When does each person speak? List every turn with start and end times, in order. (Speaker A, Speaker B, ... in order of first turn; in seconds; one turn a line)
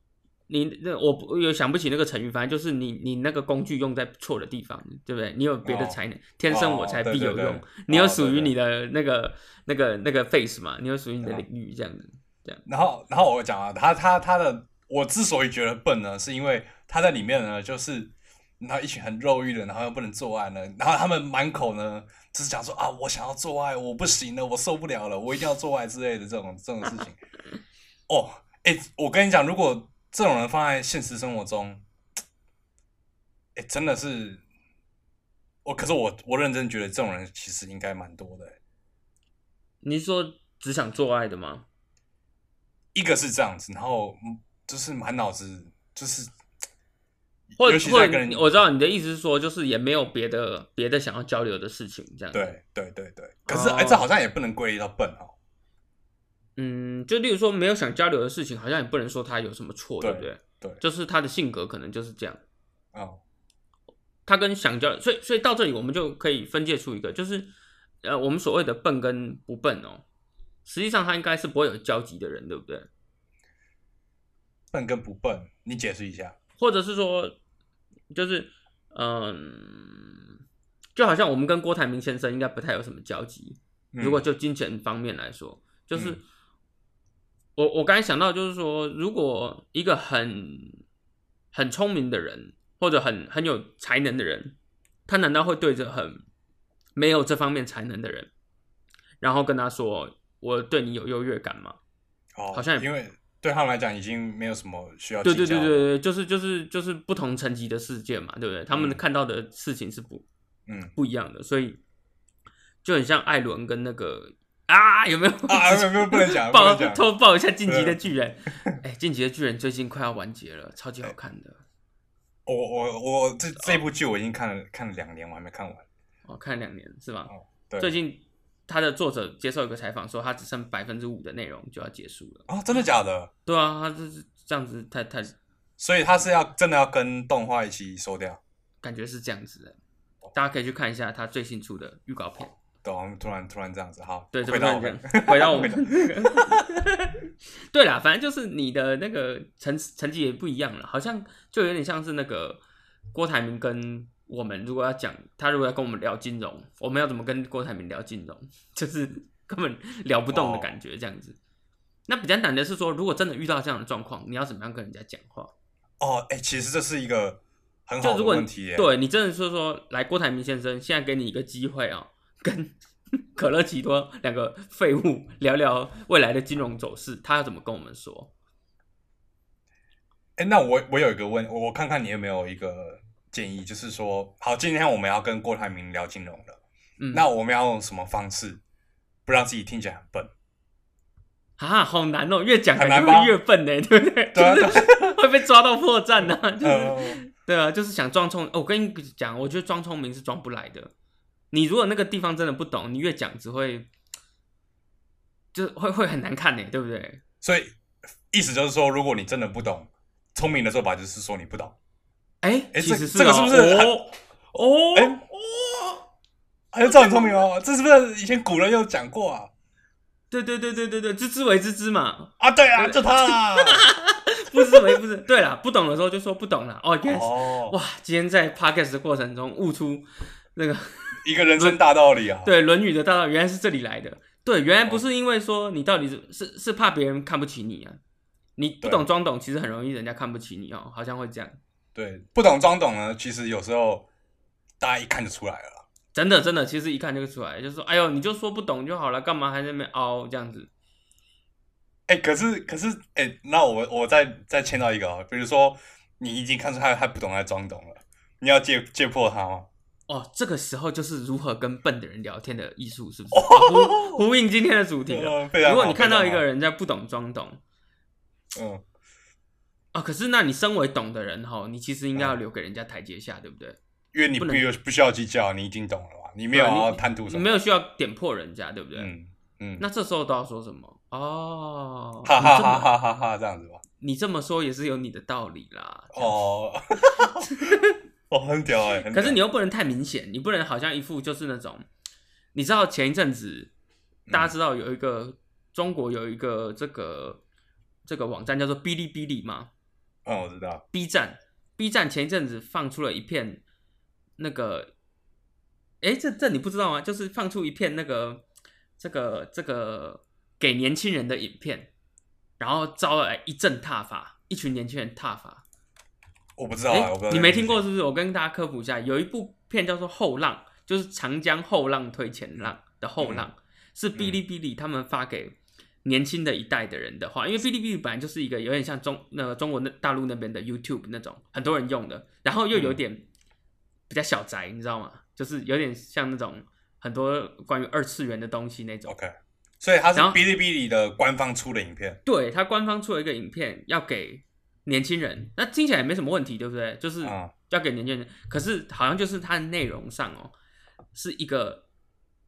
Speaker A: 0.5-12.6
Speaker B: 5.6-6.0
Speaker B: 6.5-8.5
Speaker B: 12.7-27.2
Speaker B: 28.1-31.8
Speaker B: 33.6-34.4
Speaker B: 35.6-38.6
Speaker A: 39.8-41.7
Speaker B: 42.9-46.3
Speaker B: 47.5-48.5
Speaker A: 47.6-52.6
Speaker B: 52.3-55.3
Speaker A: 53.5-54.1
Speaker A: 56.6-62.4
Speaker B: 60.0-60.8
Speaker B: 62.9-63.2
Speaker A: 64.3-67.5
Speaker A: 68.0-70.0
Speaker A: 70.7-72.9
Speaker B: 74.7-76.4
Speaker A: 76.6-77.4
Speaker A: 78.1-80.2
Speaker A: 81.0-86.2
Speaker B: 83.9-84.2
Speaker B: 85.9-86.2
Speaker A: 87.6-90.8
Speaker A: 91.5-94.6
Speaker A: 95.1-96.2
Speaker A: 97.0-98.3
Speaker A: 99.2-101.8
Speaker B: 102.4-105.9
Speaker A: 102.5-102.9
Speaker A: 105.2-110.2
Speaker B: 108.7-109.0
Speaker B: 110.7-110.9
Speaker A: 111.0-111.8
Speaker A: 112.8-121.6
Speaker B: 115.5-117.1
Speaker B: 117.7-118.0
Speaker B: 122.5-125.9
Speaker A: 126.3-132.9
Speaker B: 127.3-127.9
Speaker B: 132.5-133.3
Speaker A: 133.5-135.3
Speaker B: 135.8-138.4
Speaker A: 138.8-139.8
Speaker A: 140.3-142.6
Speaker B: 142.8-146.6
Speaker A: 144.3-152.6
Speaker A: 153.1-161.4
Speaker B: 160.3-160.7
Speaker A: 162.1-165.5
Speaker B: 166.0-168.9
Speaker A: 168.0-178.3
Speaker B: 180.4-186.6
Speaker A: 187.0-187.3
Speaker B: 187.1-188.6
Speaker B: 189.3-190.3
Speaker A: 191.6-200.9
Speaker B: 192.8-193.3
Speaker B: 194.3-195.2
Speaker B: 196.6-197.2
Speaker A: 201.5-203.9
Speaker A: 205.5-207.2
Speaker B: 207.4-207.8
Speaker B: 208.3-211.8
Speaker A: 212.4-215.2
Speaker B: 212.7-214.0
Speaker B: 214.9-215.3
Speaker B: 216.7-219.5
Speaker A: 220.3-231.8
Speaker B: 222.4-223.8
Speaker B: 224.5-225.0
Speaker B: 227.1-227.8
Speaker B: 231.1-232.5
Speaker A: 232.4-238.0
Speaker A: 238.6-241.6
Speaker B: 241.9-244.1
Speaker B: 244.8-245.8
Speaker A: 246.1-250.7
Speaker B: 252.1-259.7
Speaker A: 260.1-267.6
Speaker B: 263.3-264.2
Speaker B: 265.1-266.4
Speaker B: 268.5-268.8
Speaker A: 269.9-273.8
Speaker B: 274.1-277.5
Speaker A: 274.4-274.6
Speaker A: 276.5-279.1
Speaker B: 279.0-279.9
Speaker A: 279.8-282.9
Speaker B: 282.2-283.8
Speaker A: 284.0-286.3
Speaker B: 286.1-287.7
Speaker A: 287.2-288.0
Speaker B: 288.3-289.4
Speaker A: 289.1-291.9
Speaker A: 292.5-293.7
Speaker B: 294.3-294.5
Speaker A: 294.3-297.4
Speaker A: 298.1-299.7
Speaker B: 300.2-300.8
Speaker A: 300.9-303.6
Speaker A: 304.4-304.9
Speaker A: 306.0-308.4
Speaker A: 309.0-311.9
Speaker A: 312.6-315.6
Speaker B: 316.6-317.8
Speaker A: 316.9-333.3
Speaker B: 323.2-323.5
Speaker B: 332.7-333.0
Speaker A: 334.1-339.1
Speaker B: 339.1-342.2
Speaker A: 342.2-350.5
Speaker B: 347.2-347.5
Speaker A: 351.1-351.8